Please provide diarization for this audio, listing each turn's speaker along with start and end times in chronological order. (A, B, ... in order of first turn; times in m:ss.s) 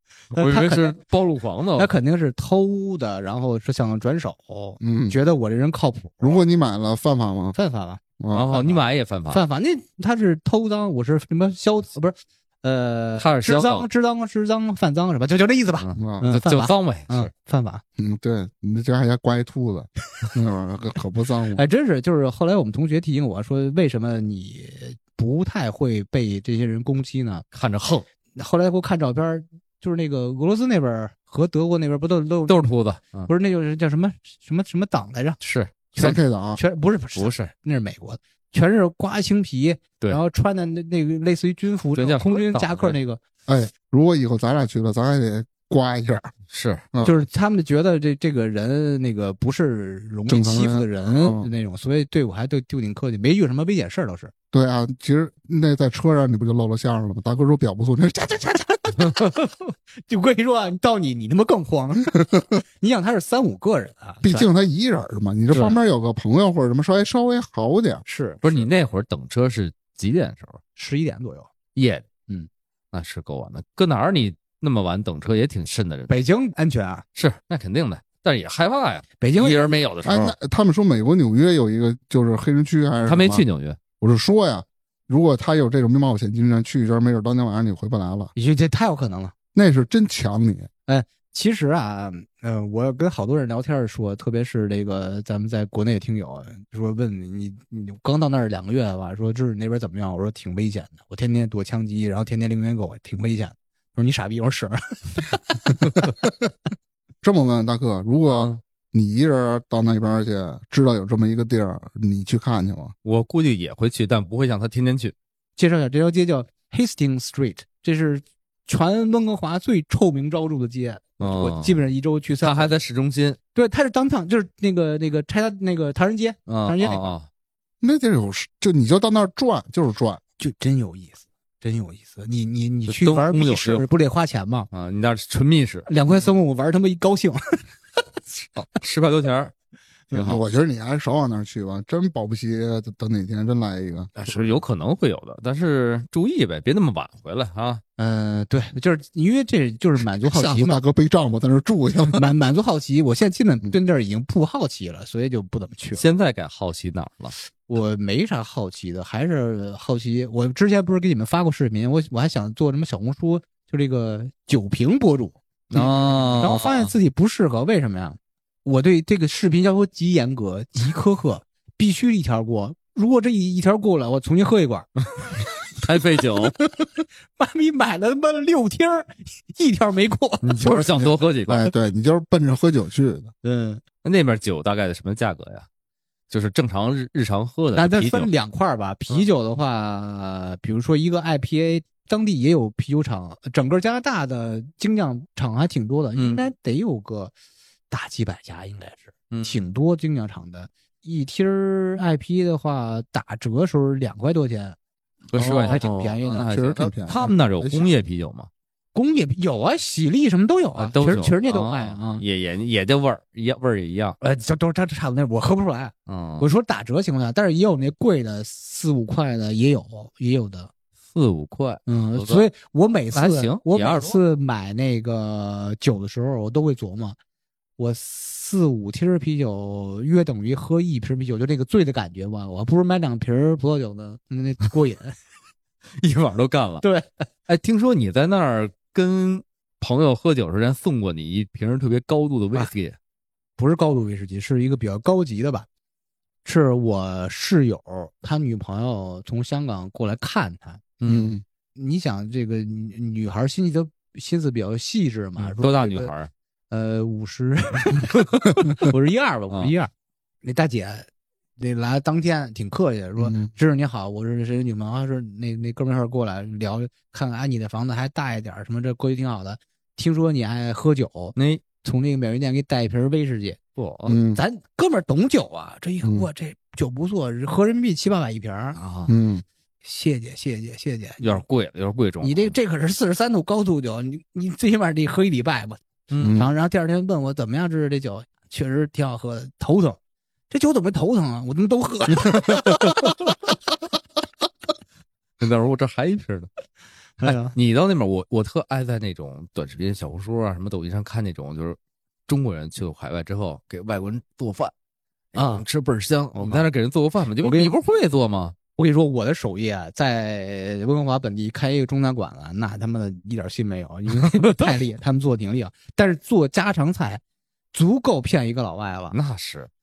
0:00.3-0:01.0 A
0:00.4-0:01.9 B
0:01.8-0:06.4 A
0:04.8-0:05.2 C
0:06.2-0:07.6 C
0:07.5-0:17.8 A
0:08.2-0:08.5 C
0:08.3-0:09.4 B
0:13.2-0:13.9 B
0:15.8-0:17.3 B
0:16.0-0:16.3 C
0:18.0-0:21.6 C
0:21.5-0:27.4 A
0:27.5-0:28.1 B
0:28.4-0:32.7 A
0:32.5-0:33.3 B
0:33.3-0:35.4 A
0:35.4-0:36.1 B
0:35.9-0:43.2 A
0:36.0-0:36.6 C
0:37.2-0:37.5 B
0:42.0-0:43.0 B
0:43.5-0:46.3 C
0:46.5-0:46.8 B
0:46.9-0:47.2 C
0:47.0-0:54.3 A
0:50.3-0:51.5 C
0:54.5-0:58.9 C
0:58.9-1:04.5 A
1:04.2-1:08.0 C
1:08.1-1:08.7 A
1:08.4-1:10.6 B
1:10.8-1:11.5 A
1:11.8-1:12.1 B
1:12.9-1:16.1 B
1:16.1-1:17.0 A
1:17.2-1:20.4 B
1:19.2-1:19.7 A
1:20.0-1:23.4 C
1:23.0-1:23.8 B
1:24.0-1:28.3 C
1:28.4-1:29.3 A
1:29.6-1:30.7 C
1:30.9-1:46.1 A
1:47.2-1:52.9 C
1:53.0-1:55.1 B
1:55.6-2:02.7 A
2:01.2-2:01.8 B
2:02.4-2:03.4 B
2:03.6-2:07.1 A
2:06.5-2:07.3 B
2:07.8-2:10.2 C
2:10.4-2:14.7 A
2:12.9-2:13.8 B
2:14.7-2:15.9 B
2:15.9-2:17.7 A
2:18.6-2:19.5 B
2:20.1-2:20.4 B
2:20.1-2:24.1 C
2:24.2-2:27.8 B
2:28.0-2:30.8 A
2:30.2-2:32.3 C
2:32.1-2:36.0 A
2:36.0-2:37.4 B
2:37.7-2:54.9 A
2:45.7-2:46.9 B
2:55.7-2:56.6 B
2:57.4-3:00.8 A
3:00.4-3:01.7 B
3:00.7-3:03.3 C
3:03.4-3:03.8 A
3:04.0-3:05.7 B
3:06.3-3:08.3 B
3:07.8-3:17.3 A
3:16.2-3:16.4 B
3:17.9-3:24.8 A
3:19.3-3:19.6 B
3:25.3-3:28.5 B
3:25.4-3:27.9 C
3:25.7-3:26.5 A
3:29.0-3:32.2 A
3:30.8-3:34.2 B
3:34.2-3:40.7 A
3:36.1-3:36.5 B
3:41.1-3:42.5 B
3:41.9-3:47.2 A
3:43.1-3:44.2 B
3:47.8-3:55.2 A
3:56.0-3:56.8 B
3:56.8-3:57.3 A
3:57.5-4:03.0 B
4:03.6-4:05.7 A
4:06.4-4:11.0 A
4:11.0-4:11.3 B
4:11.1-4:11.4 C
4:11.8-4:16.1 A
4:15.4-4:16.3 B
4:16.7-4:19.9 A
4:20.4-4:21.1 A
4:21.6-4:33.6 A
4:23.2-4:23.5 C
4:31.4-4:31.6 B
4:33.8-4:34.2 B
4:34.1-4:34.4 C
4:34.3-4:38.8 A
4:38.8-4:39.1 B
4:39.1-4:39.4 C
4:39.8-4:41.4 A
4:41.2-4:42.6 B
4:42.2-4:50.0 A
4:46.1-4:46.4 B
4:46.2-4:46.5 C
4:50.5-4:53.1 A
4:55.4-4:56.5 B
4:57.2-4:57.6 A
4:57.2-5:01.8 B
5:02.3-5:04.7 B
5:05.3-5:08.6 B
5:05.4-5:05.6 A
5:06.4-5:06.7 A
5:07.4-5:07.8 A
5:08.8-5:17.2 A
5:17.7-5:19.2 A
5:19.1-5:19.7 B